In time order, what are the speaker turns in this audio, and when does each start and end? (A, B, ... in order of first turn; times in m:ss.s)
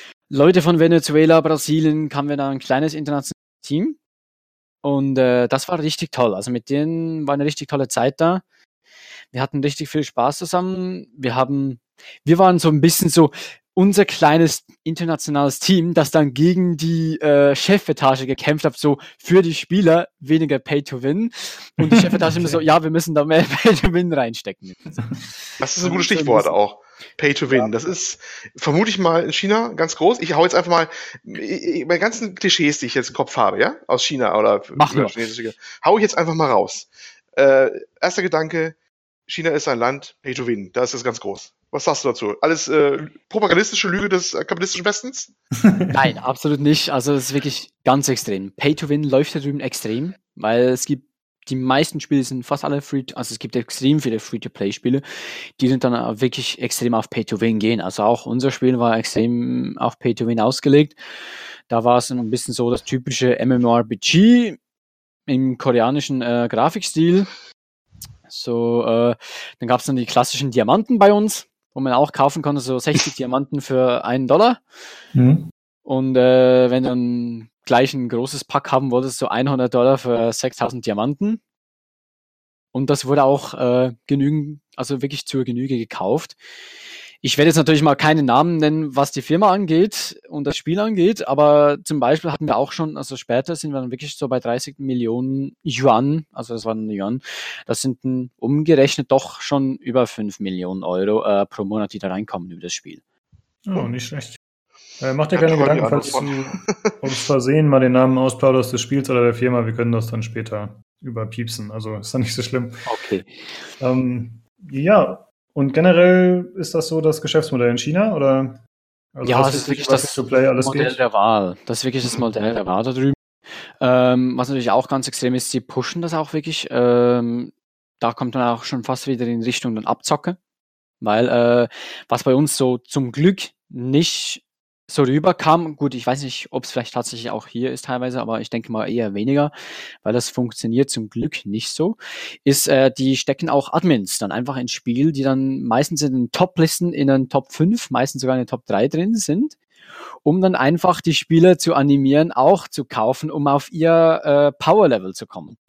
0:00.3-0:04.0 A
0:04.8-0:08.4 A
0:09.3-0:25.1 A
0:21.9-0:22.6 B
0:25.6-0:38.8 C
0:25.8-0:26.5 A
0:34.8-0:35.2 A
0:39.3-0:45.3 C
0:45.6-0:46.0 B
0:45.9-0:55.0 A
0:55.6-1:01.0 A
1:01.7-1:04.6 A
1:05.3-1:07.3 A
1:08.3-1:14.6 A
1:15.1-1:15.5 B
1:15.9-1:21.4 A
1:22.7-1:26.4 A
1:27.2-1:43.0 A
1:43.6-1:44.4 B
1:45.0-1:52.7 B
1:45.3-1:47.0 C
1:52.9-1:53.4 A
1:53.8-1:58.6 B
1:59.2-2:01.0 B
1:59.2-2:03.2 A
2:03.8-2:10.4 A
2:11.0-2:19.5 A
2:20.0-2:29.6 A
2:30.2-2:35.6 A